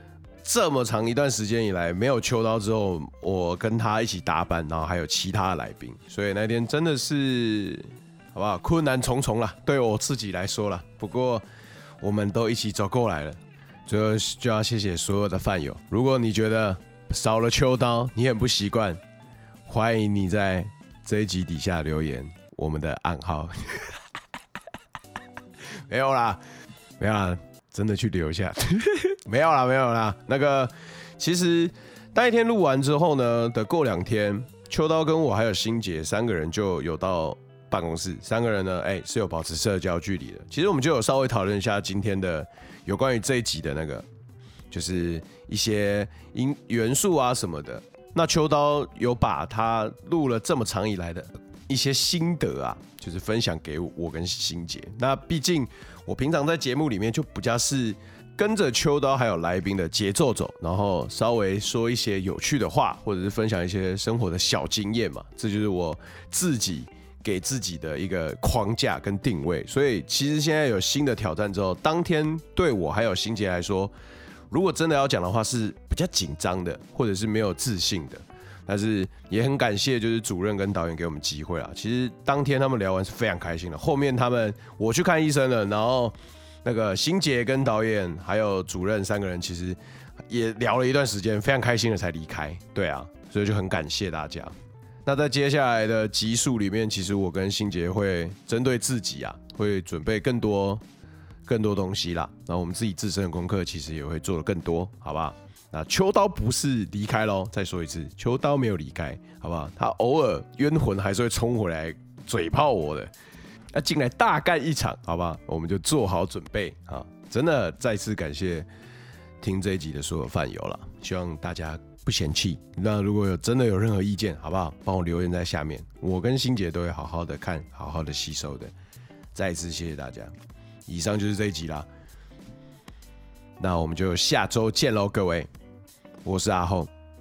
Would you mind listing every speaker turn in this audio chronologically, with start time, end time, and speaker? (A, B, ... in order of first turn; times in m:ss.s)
0:00.4-0:11.4 A
0:12.0-0:19.0 A
0:19.7-0:24.0 A
0:25.8-0:26.4 A
0:27.0-0:44.1 A
0:44.7-1:13.9 A
1:14.5-1:40.8 A
1:41.5-1:53.1 A
1:53.7-1:58.7 A
1:59.4-2:08.7 A
2:09.3-2:10.3 A
2:10.9-2:11.9 A
2:13.6-2:15.5 A
2:16.2-2:16.9 A